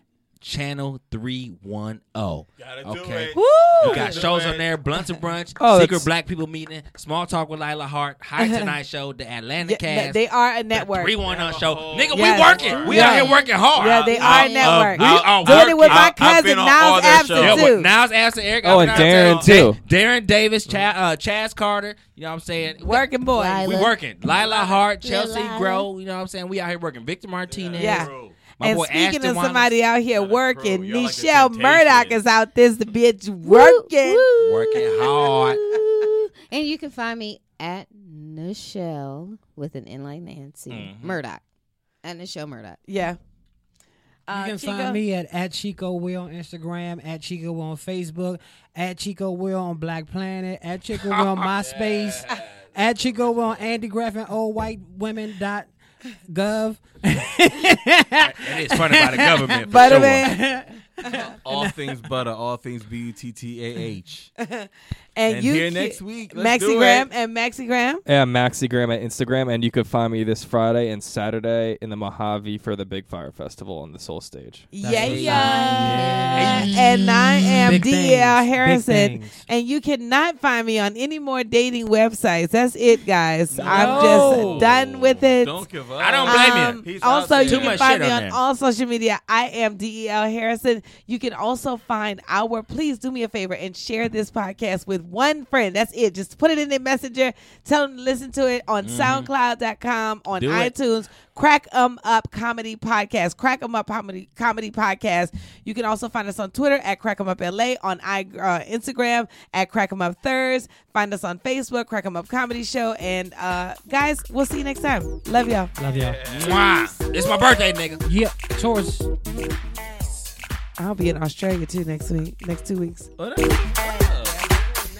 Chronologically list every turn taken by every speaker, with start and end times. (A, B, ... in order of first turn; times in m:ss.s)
0:00.4-0:16.1 A
0:02.6-0:04.8 B
0:03.3-0:04.2 C
0:05.5-0:06.1 C
0:08.4-0:08.7 C
0:09.6-0:11.2 C
0:11.2-0:17.7 B
0:12.1-0:17.9 C
0:12.9-0:14.9 D
0:17.4-0:29.7 A
0:18.6-0:19.8 E
0:18.6-0:19.7 B
0:22.8-0:23.7 C
0:23.3-0:25.9 D
0:24.5-0:24.8 B
0:27.5-0:28.4 B
0:27.8-0:28.1 C
0:28.6-0:34.3 C
0:30.1-0:32.2 B
0:33.4-0:41.4 D
0:34.4-0:35.6 A
0:40.7-0:41.2 A
0:42.0-0:42.8 D
0:42.8-0:43.2 C
0:44.3-0:45.0 C
0:44.3-0:55.7 F
0:51.0-0:51.5 A
0:52.7-0:53.7 B
0:56.3-1:01.9 F
0:58.2-1:00.3 A
0:59.7-1:00.5 C
1:01.1-1:04.3 B
1:04.4-1:08.0 C
1:05.3-1:07.1 B
1:08.0-1:14.7 E
1:14.7-1:25.6 C
1:14.8-1:19.4 F
1:15.0-1:17.0 A
1:15.2-1:16.8 D
1:23.5-1:27.9 B
1:23.6-1:24.6 F
1:26.0-1:26.9 A
1:26.3-1:55.7 C
1:27.4-1:28.4 A
1:38.8-1:39.3 A
1:40.3-1:40.7 A
1:55.8-1:56.2 F
1:55.9-1:56.9 B
1:56.3-1:58.0 A
1:58.0-1:59.1 F
2:00.8-2:03.1 C
2:03.2-2:04.5 B